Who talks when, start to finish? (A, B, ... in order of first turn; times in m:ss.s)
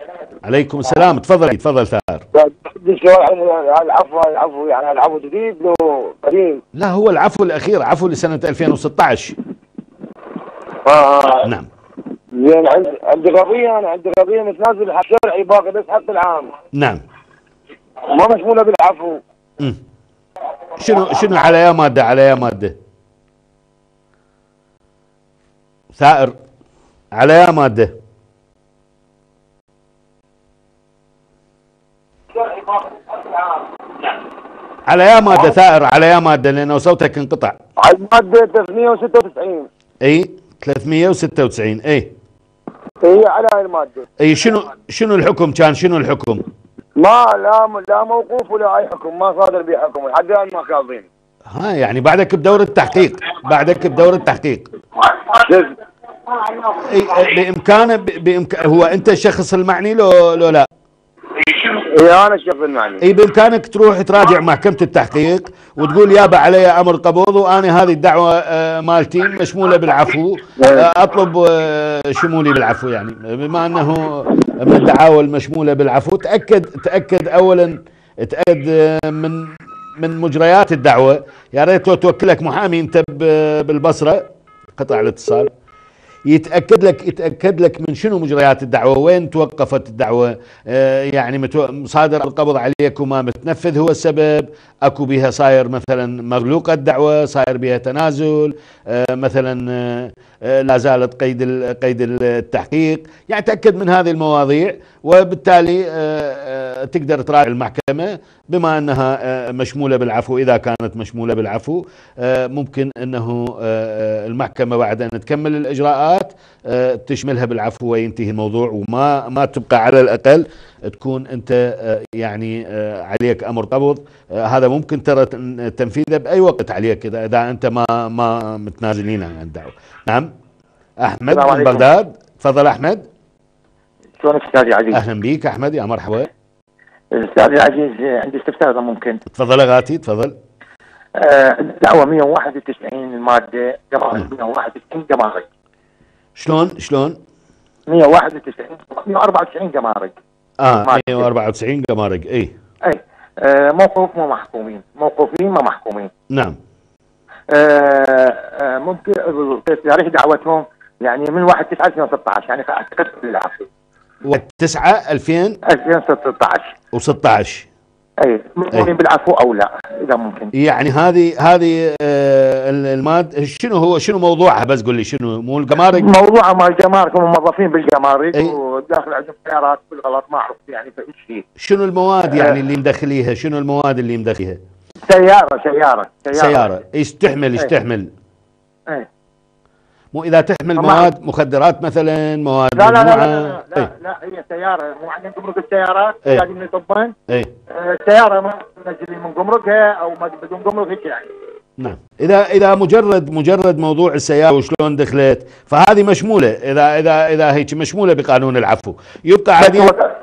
0:00.4-0:02.2 A
0:02.3-0:06.6 B
0:06.7-0:09.4 A
0:10.8-0:11.4 B
0:11.4-0:11.7 A
0:12.4-0:16.5 B
0:16.7-0:17.0 A
0:18.1-0:19.2 B
0:20.8-0:22.7 A
0:25.9-0:26.4 A
0:27.2-0:27.9 A
0:34.9-0:37.6 A
0:37.8-0:39.7 B
0:40.0-0:42.1 A
0:43.0-0:44.0 B
0:44.2-0:46.4 A
0:47.0-0:51.1 B
0:51.5-0:54.6 A
0:55.3-0:55.7 B
0:56.8-1:00.7 A
1:01.5-1:03.0 B
1:03.0-1:24.2 A
1:10.6-1:10.9 B
1:24.8-1:25.5 A
1:26.3-2:10.3 A
2:11.0-2:13.0 A
2:11.3-2:11.8 C
2:14.2-2:15.0 C
2:14.9-2:16.3 A
2:17.1-2:19.2 C
2:19.3-2:20.3 A
2:21.2-2:25.4 C
2:26.4-2:27.2 A
2:27.9-2:30.2 C
2:30.6-2:32.5 A
2:30.7-2:31.3 C
2:32.8-2:36.1 C
2:37.5-2:43.6 C
2:44.2-2:45.6 A
2:45.7-2:46.7 C
2:46.9-2:47.7 A
2:48.2-2:50.5 C
2:50.6-2:56.1 A
2:55.9-3:01.4 C
3:01.6-3:04.6 A
3:02.3-3:02.6 C
3:05.0-3:06.8 C
3:06.3-3:08.1 A
3:10.1-3:13.9 A
3:10.8-3:11.1 C
3:12.8-3:17.1 C
3:17.7-3:21.3 C
3:21.8-3:29.9 A
3:29.6-3:30.1 C